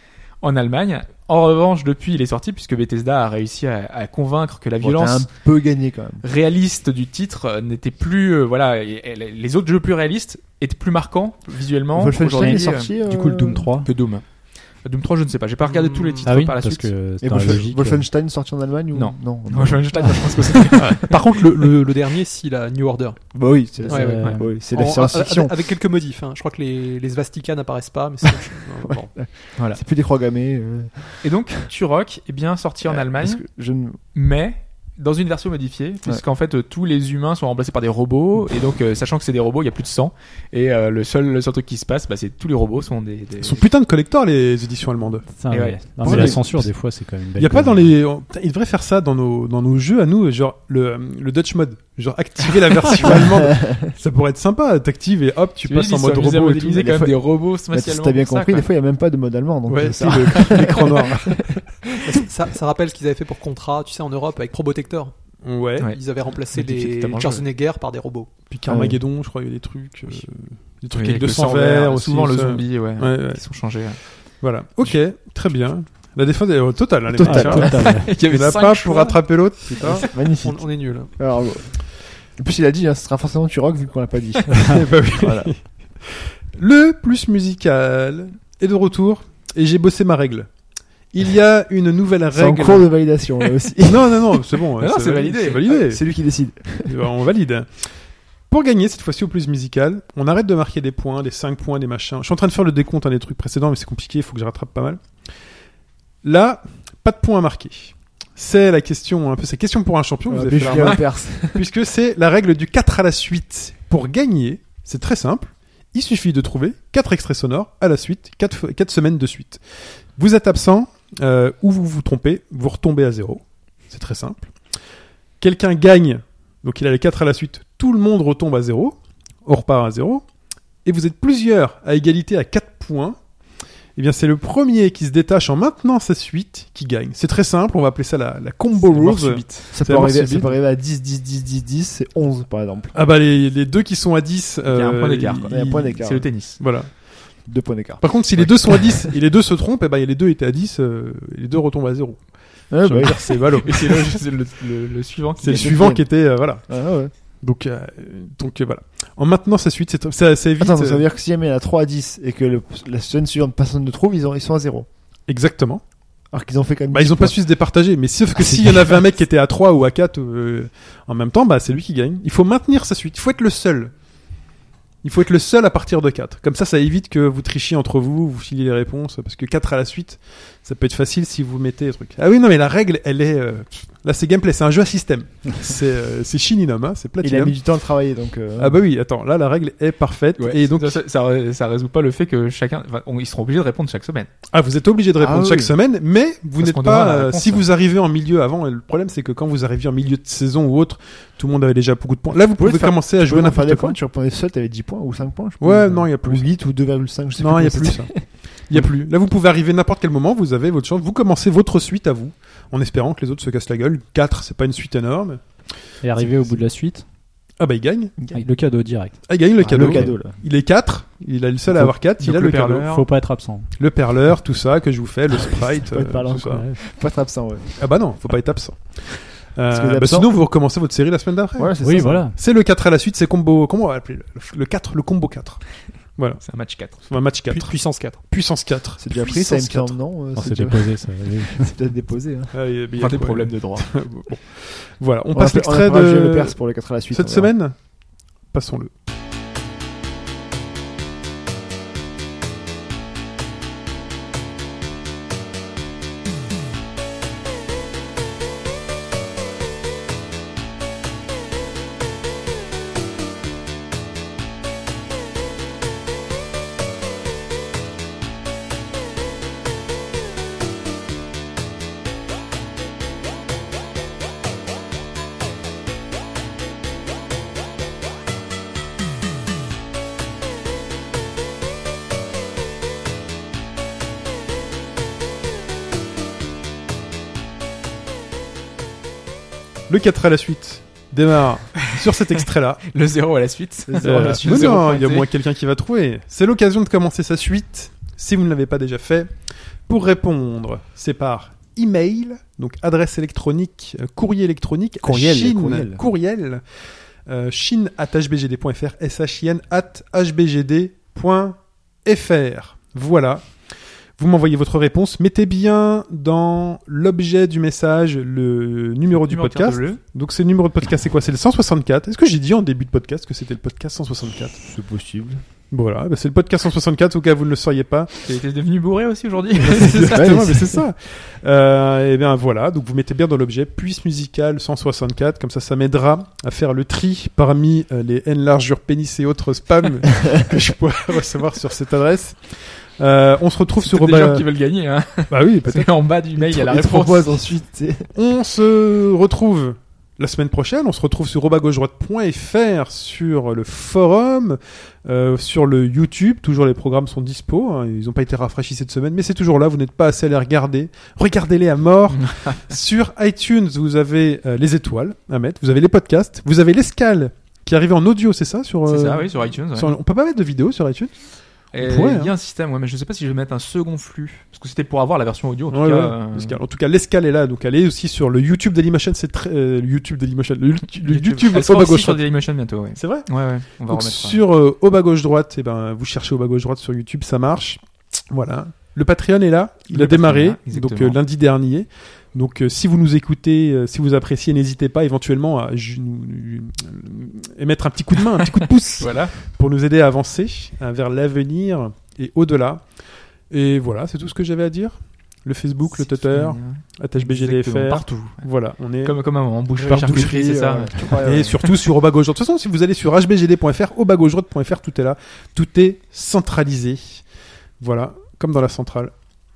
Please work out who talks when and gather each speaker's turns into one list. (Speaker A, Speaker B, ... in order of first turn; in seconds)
Speaker A: 0.4-5.3, 6.2-12.9, 13.8-14.2, 14.8-16.9, 18.9-21.2, 31.2-33.4, 34.1-43.7, 45.5-45.9, 55.6-58.6, 66.5-67.4, 70.9-74.0, 77.7-79.2, 94.8-95.7, 110.8-111.0, 138.8-139.7, 144.7-146.6, 153.3-155.8, 190.4-194.3, 196.6-197.7, 222.2-223.0, 236.4-237.0, 243.0-243.9, 292.9-295.3, 319.1-320.0, 328.2-330.4, 343.9-347.4, 362.1-362.6, 368.9-369.9, 371.7-376.6, 381.0-384.4, 389.9-391.2, 398.4-399.4, 405.9-408.5, 409.0-411.7
Speaker B: 4.8-6.2, 11.9-13.7, 17.2-20.6, 23.3-25.5, 28.7-31.5, 32.8-34.0, 46.0-46.5, 53.0-53.9, 56.8-62.0, 68.7-69.0, 77.1-78.0, 79.8-85.5, 92.3-94.6, 95.7-97.0, 110.2-111.7, 139.7-142.9, 145.4-146.3, 147.4-149.1, 152.7-153.2, 155.4-156.1, 156.7-157.1, 160.6-164.9, 166.3-167.4, 187.2-188.8, 195.2-195.7, 202.5-208.2, 219.6-220.4, 225.4-227.7, 229.7-230.3, 231.6-232.3, 239.0-242.5, 245.3-247.5, 293.9-294.8, 305.0-306.0, 324.3-325.4, 329.9-330.8, 346.4-348.1, 409.8-411.7
Speaker C: 12.3-13.9, 16.2-18.0, 23.9-24.4, 45.3-47.9, 77.2-78.2, 216.0-217.0, 218.3-220.2, 221.7-221.9, 222.8-223.7, 226.4-226.8, 231.8-232.4, 240.3-241.7
Speaker D: 15.6-16.3, 20.7-23.2, 23.9-29.1, 59.7-60.1, 62.0-65.1, 65.8-68.3, 79.8-81.1, 237.5-238.2
Speaker E: 43.4-45.3, 46.0-46.7, 47.4-57.0, 59.7-61.5, 65.4-65.9, 68.5-73.4, 74.4-80.1, 84.6-90.5, 91.1-92.9, 93.8-96.0, 96.8-97.9, 98.5-105.0, 106.2-119.6, 120.1-124.5, 125.4-130.2, 130.8-133.2, 133.9-140.6, 142.9-146.9, 148.0-152.2, 152.8-154.1, 155.4-156.6, 157.4-161.0, 165.3-165.8, 166.9-173.9, 175.0-187.5, 188.6-191.0, 194.5-203.9, 205.6-206.4, 207.4-215.4, 217.6-218.2, 219.3-222.9, 223.8-226.6, 227.8-231.8, 232.3-235.6, 236.2-236.4, 237.1-239.9, 242.5-246.5, 247.1-247.8, 248.5-248.9, 289.9-292.9, 294.0-299.3, 299.9-306.6, 307.2-313.5, 314.2-324.6, 325.7-328.1, 329.6-344.4, 345.3-345.9, 348.1-371.1, 371.7-372.3, 375.7-382.2, 383.0-383.3, 383.9-402.9, 403.5-409.1, 409.8-410.4, 411.2-417.2, 417.8-419.1